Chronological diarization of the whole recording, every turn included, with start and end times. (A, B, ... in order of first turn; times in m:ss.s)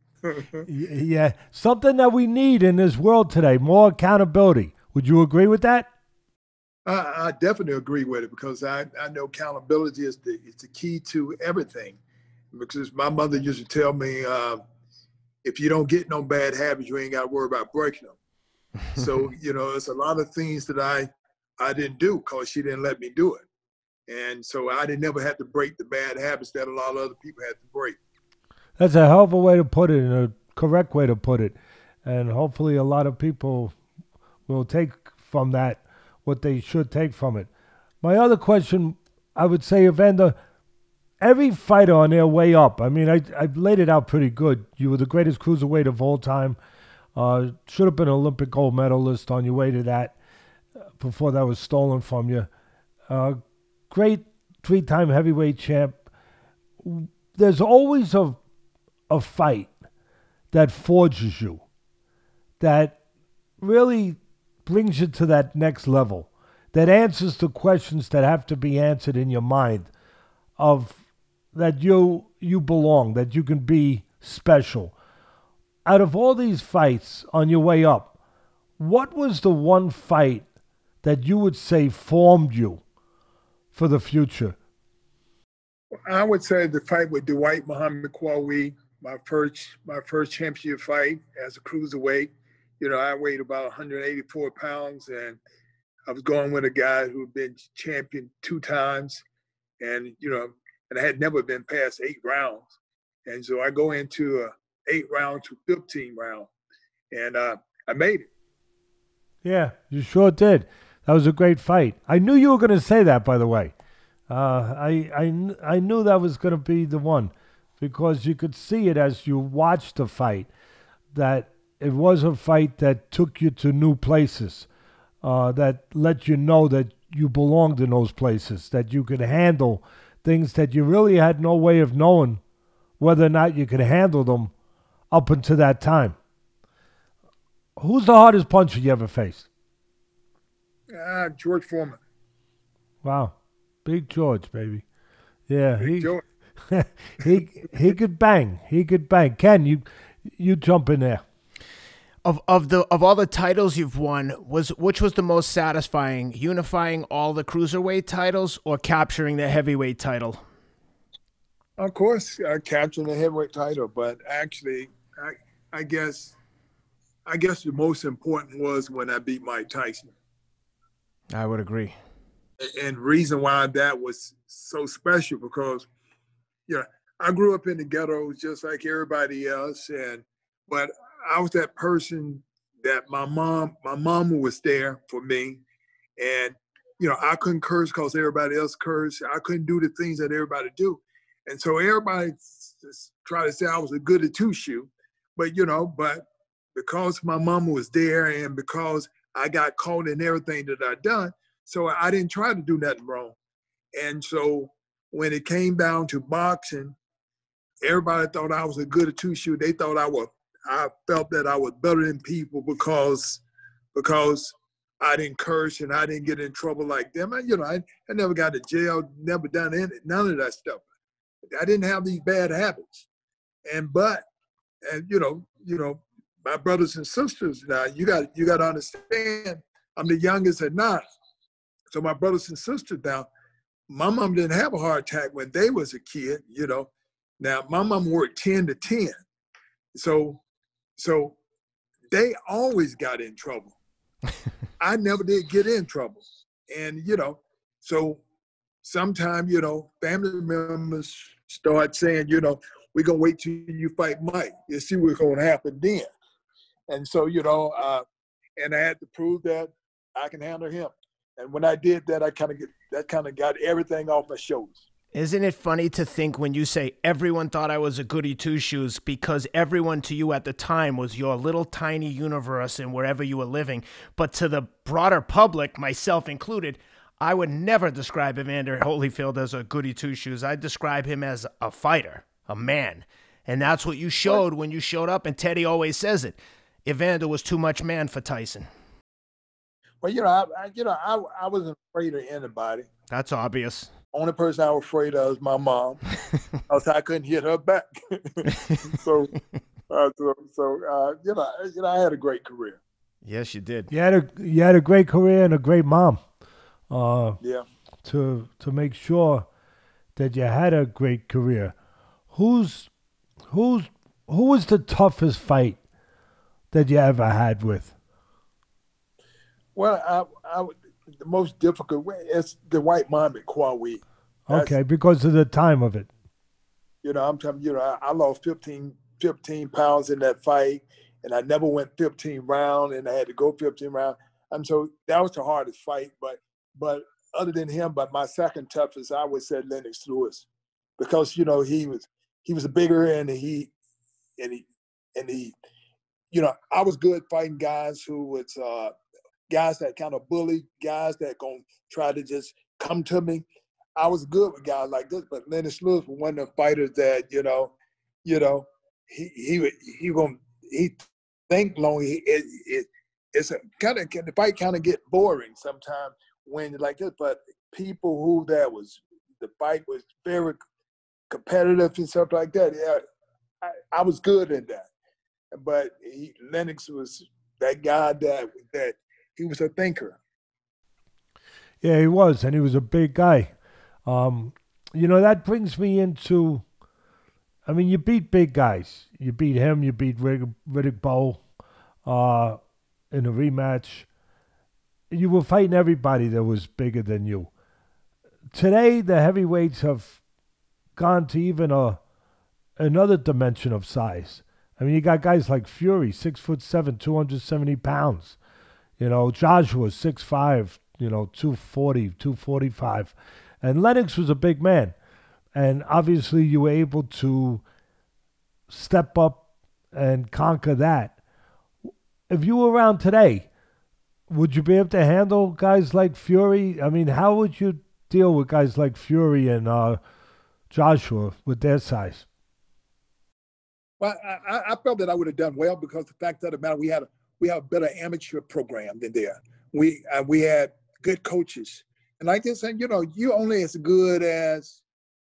0:00.2-0:00.7 A
0:00.7-0:05.9 B
0:06.8-0:12.0 A
0:12.5-0:14.6 A
0:15.4-0:18.2 A
0:18.9-0:23.4 A
0:24.1-0:28.0 A
0:28.8-0:33.7 B
0:34.5-0:37.5 B
0:38.0-0:40.4 B
0:41.2-0:46.6 B
0:47.1-0:50.2 B
0:51.0-0:52.5 B
0:53.1-0:53.4 B
0:53.9-0:56.0 B
0:56.8-0:58.4 B
0:59.1-0:59.8 B
1:00.5-1:01.6 B
1:02.6-1:03.0 B
1:03.6-1:09.9 B
1:10.6-1:11.0 B
1:11.5-1:14.9 B
1:15.8-1:18.2 B
1:18.8-1:20.4 B
1:21.0-1:22.8 B
1:23.7-1:24.6 B
1:26.0-1:35.4 A
1:36.1-1:39.2 A
1:39.8-1:42.7 A
1:43.2-1:46.5 A
1:47.1-1:48.3 A
1:49.4-1:53.7 B
1:54.3-2:00.5 B
2:01.1-2:04.7 B
2:05.2-2:12.4 B
2:13.0-2:14.5 B
2:15.1-2:16.2 B
2:17.8-2:19.5 B
2:20.9-2:22.0 A
2:23.0-2:24.8 B
2:25.5-2:26.1 B
2:25.8-2:26.2 A
2:26.7-2:31.2 B
2:32.2-2:40.4 C
2:41.8-2:46.3 A
2:47.2-2:50.1 A
2:51.3-2:52.0 C
2:52.6-2:55.8 A
2:56.7-3:05.6 A
3:06.2-3:23.4 A
3:23.9-3:26.9 A
3:27.8-3:33.4 A
3:33.9-3:40.8 A
3:41.6-3:43.1 A
3:43.6-3:44.2 A
3:44.8-3:51.0 A
3:51.9-3:53.3 A
3:53.9-3:59.2 A
3:59.9-4:00.4 A
4:01.0-4:01.4 A
4:02.1-4:03.8 A
4:04.8-4:08.2 A
4:08.8-4:16.1 A
4:16.9-4:18.0 A
4:18.6-4:24.8 A
4:25.1-4:48.7 C
4:50.0-4:52.9 A
4:53.1-4:53.9 C
4:54.1-4:56.0 A
4:56.7-4:59.3 A
4:59.9-5:02.8 A
5:03.2-5:03.9 C
5:03.9-5:06.2 B
5:06.9-5:07.4 B
5:08.0-5:09.5 B
5:10.2-5:11.7 B
5:12.3-5:12.9 B
5:13.5-5:15.8 B
5:16.7-5:17.9 B
5:19.7-5:24.8 A
5:24.5-5:26.1 B
5:27.0-5:40.5 A
5:41.0-5:43.7 A
5:44.4-5:44.6 A
5:45.2-5:45.5 A
5:46.3-5:48.9 A
5:49.5-5:53.4 A
5:54.0-6:10.6 A
6:11.3-6:13.0 A
6:13.6-6:14.9 A
6:15.5-6:20.2 A
6:21.8-6:23.5 B
6:24.0-6:26.6 B
6:27.6-6:31.4 B
6:32.0-6:32.6 B
6:33.1-6:34.1 B
6:35.1-6:37.5 B
6:38.5-6:40.2 B
6:40.9-6:42.0 B
6:42.8-6:48.4 B
6:49.0-6:54.9 B
6:55.5-6:57.6 B
6:58.7-7:01.2 B
7:02.3-7:03.5 B
7:04.3-7:10.0 B
7:10.7-7:12.3 B
7:14.0-7:24.8 A